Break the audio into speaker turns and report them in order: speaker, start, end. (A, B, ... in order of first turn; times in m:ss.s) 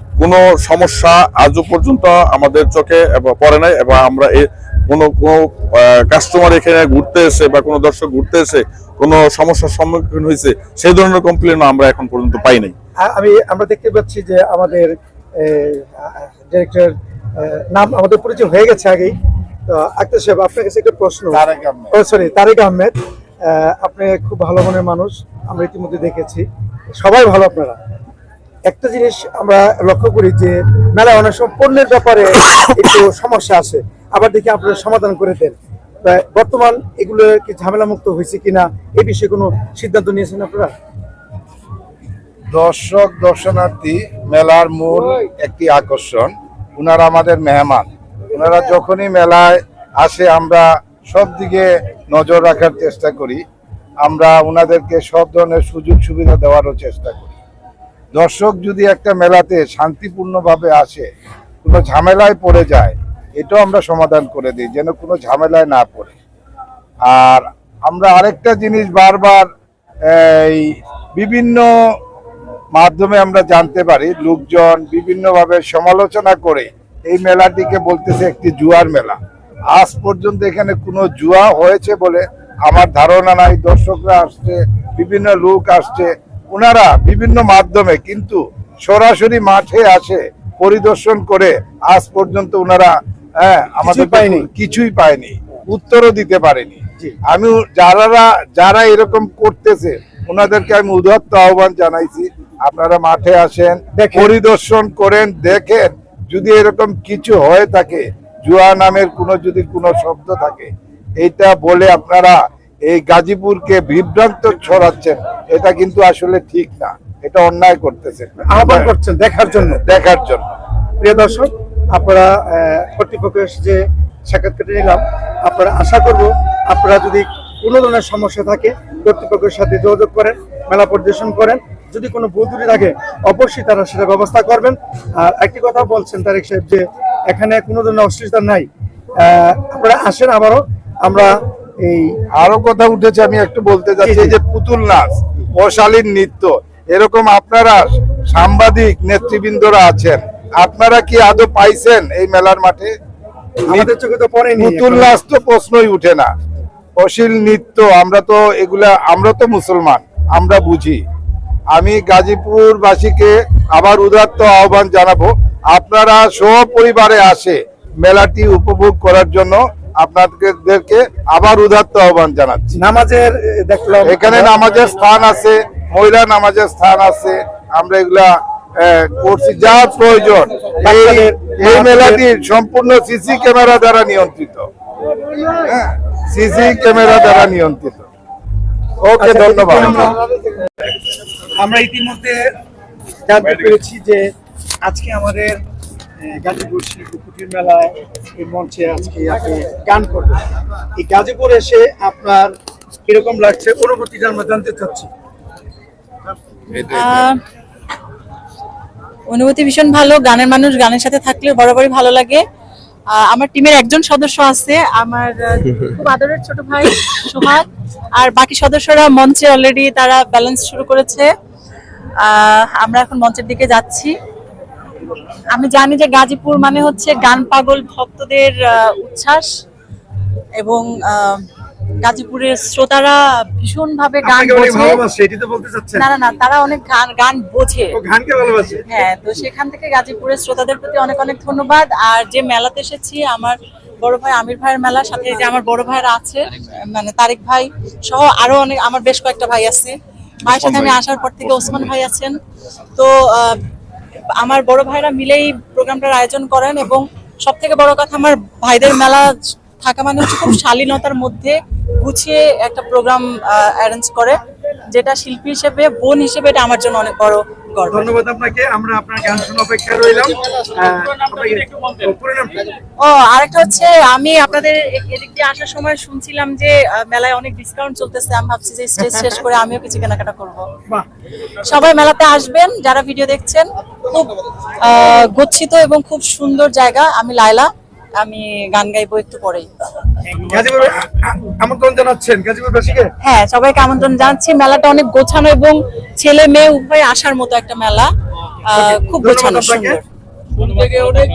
0:00.2-0:12.8 A
0:13.0-0:27.8 B
0:21.3-0:22.0 C
0:28.7-0:40.7 B
0:42.5-0:53.4 C
0:54.0-0:57.3 C
0:58.2-1:01.1 C
1:01.6-1:06.2 C
1:07.1-1:09.5 C
1:10.1-1:11.7 C
1:12.8-1:19.2 C
1:19.7-1:58.9 C
1:33.9-1:34.5 B
1:44.0-1:44.3 B
1:58.4-1:59.8 B
1:59.8-2:00.5 C
2:01.0-2:22.2 B
2:22.3-2:32.9 C
2:24.0-2:24.4 B
2:33.6-2:35.1 B
2:34.6-2:36.3 C
2:37.0-2:41.0 C
2:41.7-2:52.8 C
2:52.8-2:54.6 B
2:54.0-3:04.7 C
3:00.8-3:02.2 B
3:05.6-3:08.1 C
3:09.0-3:10.2 C
3:09.2-3:10.7 B
3:11.6-3:12.5 B
3:13.3-3:14.3 B
3:14.8-3:15.6 B
3:16.2-3:20.4 B
3:21.0-3:25.1 B
3:26.8-3:27.4 D
3:29.3-3:32.4 D
3:33.1-3:41.3 D
3:42.2-3:44.1 D
3:45.5-3:49.5 D
3:50.6-3:51.5 D
3:52.0-3:55.0 D
3:54.2-3:56.0 B
3:56.0-3:58.0 D
3:57.9-3:58.8 B
3:58.9-4:12.4 D
4:13.0-4:13.6 D
4:14.4-4:24.4 D
4:24.9-4:28.1 D
4:27.9-4:32.7 B
4:33.0-4:40.7 D
4:41.6-4:49.7 D
4:50.4-4:53.1 B
4:53.2-4:58.1 D
4:58.6-5:00.0 D
4:59.2-5:00.0 B
5:00.7-5:01.1 B